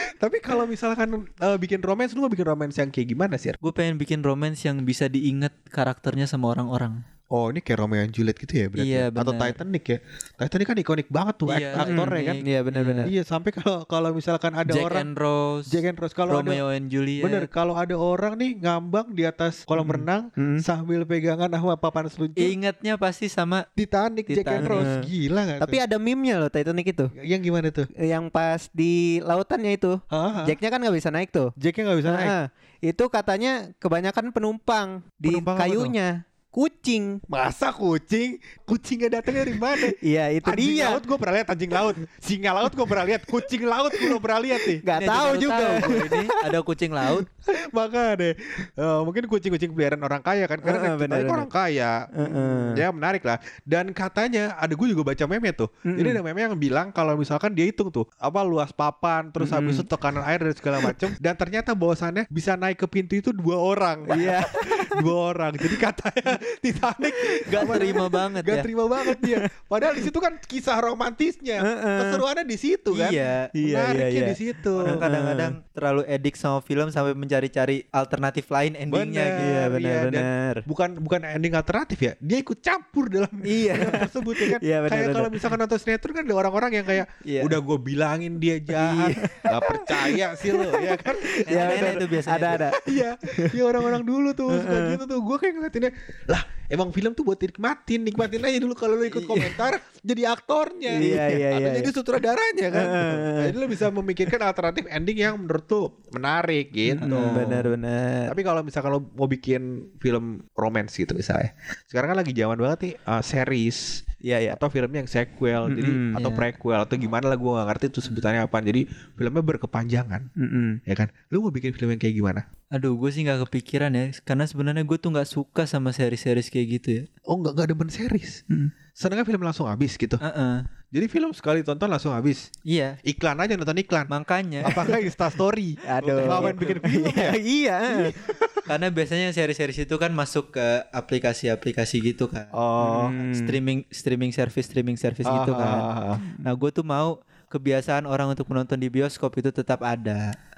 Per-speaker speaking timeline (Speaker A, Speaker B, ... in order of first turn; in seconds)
Speaker A: 0.2-3.6, 7.3-12.4, 13.0-15.1, 15.7-16.6, 17.2-22.6, 23.8-25.8, 27.2-27.9, 30.1-30.6, 31.6-32.3, 35.2-35.9, 37.3-44.8, 47.5-75.0, 78.9-92.0, 92.7-107.7, 108.3-114.0, 114.5-120.3, 120.9-122.4, 127.3-128.4, 128.9-130.2, 130.9-132.5, 133.0-134.1, 134.6-137.3, 137.9-138.6, 142.5-143.1, 145.2-146.2
Speaker B: 3.6-7.0, 8.8-9.6, 11.4-13.1, 14.7-17.5, 22.4-23.6, 24.3-24.9, 45.0-47.3, 67.5-68.7, 72.9-73.5, 74.8-79.5, 87.2-87.6, 88.8-89.2, 91.5-92.6, 99.0-99.6, 107.1-107.5, 116.2-116.5, 122.7-127.1, 130.2-130.6, 132.7-133.0, 134.1-134.9, 136.0-136.8, 138.7-142.5, 143.2-145.8, 146.4-150.2
Speaker C: 11.8-13.1, 19.8-20.6, 24.6-25.1, 25.6-27.1, 28.0-31.5, 32.0-37.2, 39.9-41.0, 44.8-46.3, 50.6-51.5, 52.2-52.8, 55.9-56.2, 59.4-59.9, 64.1-64.9, 67.5-68.2, 69.0-69.4, 71.6-72.2, 73.5-75.5, 79.4-80.6, 83.5-85.5, 89.2-93.9, 94.5-95.0, 100.9-101.9, 102.7-103.8, 106.9-108.3, 114.2-114.6, 115.7-116.2, 120.4-120.8, 135.8-138.1, 142.8-143.6, 146.2-146.6